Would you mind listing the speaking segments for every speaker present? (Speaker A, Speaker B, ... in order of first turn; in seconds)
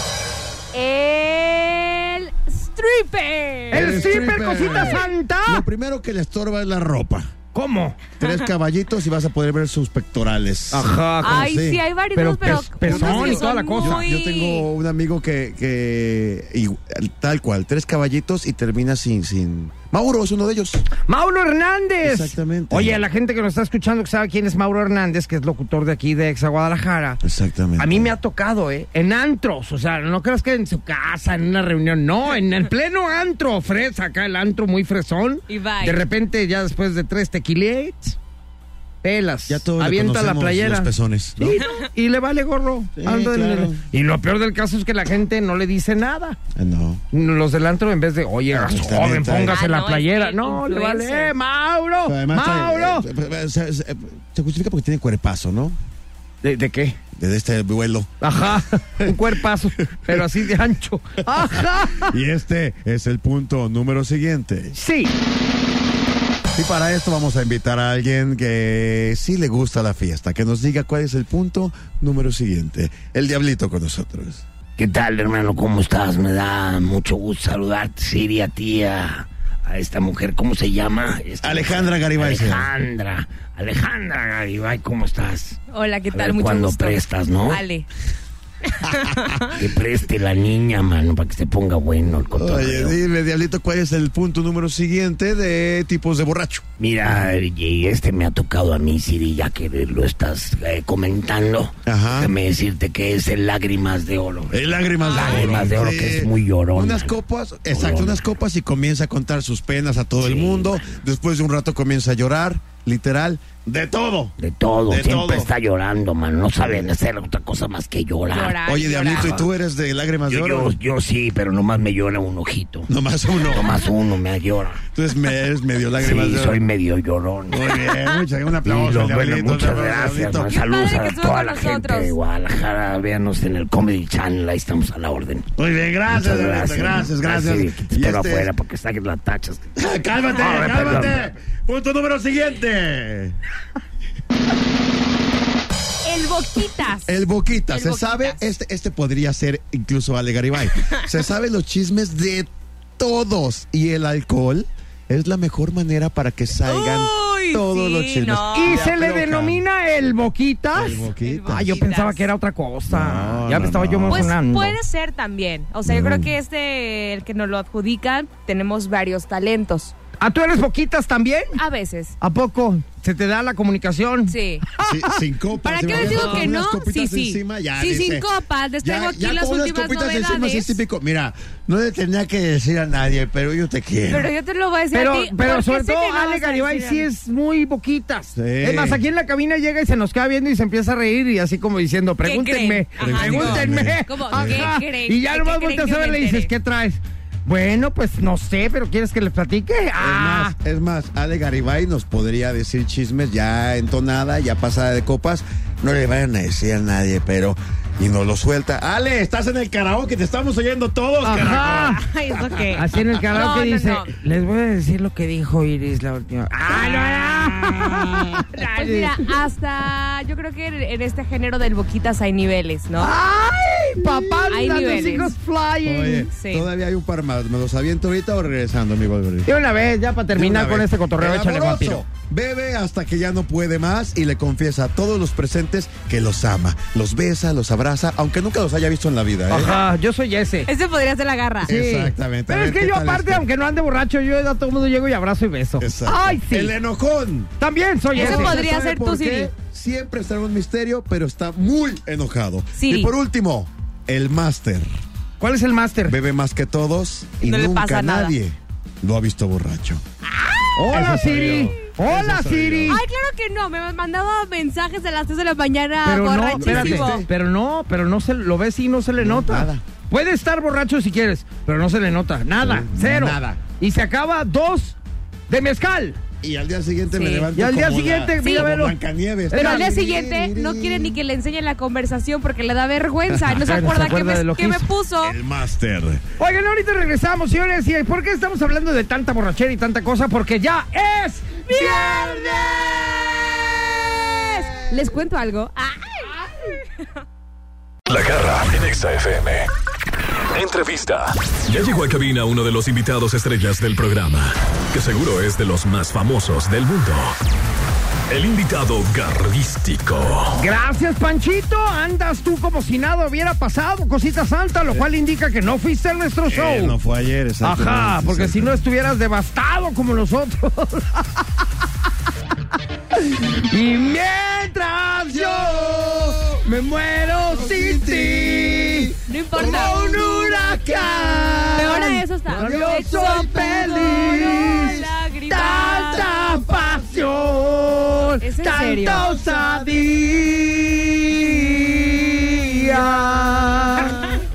Speaker A: 0.7-5.0, 11.2-14.7, 35.5-36.0, 49.4-51.3, 85.7-87.9, 88.8-89.5, 105.0-105.7, 118.2-119.5, 130.5-132.2, 146.0-147.2, 147.7-148.4, 156.6-158.8, 161.2-162.3, 164.1-169.9, 171.5-172.1, 174.3-174.7, 175.6-180.8, 184.1-187.1, 192.2-196.5, 211.8-214.1, 218.5-223.2, 224.5-225.3, 226.3-226.7, 240.7-241.7, 248.1-249.5, 252.7-253.1, 257.4-258.3, 260.3-260.8, 262.9-267.2, 277.1-277.5, 278.4-278.7, 279.5-285.4, 291.6-293.0, 294.2-296.3, 329.3-330.0, 331.7-336.3, 338.4-339.3
Speaker B: 3.7-5.6, 7.5-8.0, 10.7-11.5, 12.1-14.1, 21.1-27.2, 27.8-38.2, 39.0-46.4, 47.1-53.1, 56.4-57.0, 58.2-62.1, 64.7-65.1, 158.5-164.8, 170.2-171.6, 172.2-175.2, 175.9-176.5, 184.9-200.5, 211.2-212.0, 212.7-219.3, 223.0-226.3, 229.4-232.0, 239.5-240.7, 241.6-246.7, 247.6-248.6, 255.4-256.1, 260.8-263.0, 266.0-274.9, 275.5-276.2, 277.5-278.9, 279.5-279.9, 283.5-284.9, 286.4-292.3, 310.5-317.0, 317.6-321.5, 323.2-344.2
Speaker C: 3.7-7.3, 8.2-11.8, 12.5-20.9, 22.0-23.0, 27.2-28.1, 39.5-41.6, 43.0-43.8, 46.5-47.0, 48.5-49.6, 52.1-55.8, 57.1-58.1, 60.0-60.5, 61.2-64.8, 66.5-74.4, 81.4-82.7, 92.3-96.7, 101.8-102.3, 104.5-115.5, 116.6-116.9, 118.6-120.8, 122.9-123.8, 124.9-126.6, 127.5-130.5, 135.6-138.5, 139.8-143.4, 147.1-159.6, 160.7-161.8, 162.9-164.3, 165.8-166.3, 174.8-178.3, 178.8-184.3, 188.3-189.0, 193.0-194.7, 200.0-212.4, 217.3-218.4, 224.0-224.5, 225.8-229.5, 230.3-239.8, 241.6-243.4, 245.8-247.5, 248.1-254.9, 256.1-260.0, 260.9-263.0, 266.6-267.3, 269.2-269.8, 272.6-273.6, 276.4-281.2, 285.2-286.2, 291.8-293.3, 316.5-318.8, 325.3-326.6, 327.5-331.7, 332.5-335.0, 336.2-337.2
Speaker D: 74.8-85.6, 86.1-87.6, 89.5-93.0, 96.8-107.1, 107.7-108.2, 110.2-110.9, 114.4-118.6, 120.3-122.9, 123.5-124.8, 126.0-127.7, 128.6-135.5, 136.1-139.7, 140.3-141.2
Speaker E: 298.1-299.7, 300.5-307.4, 308.3-310.6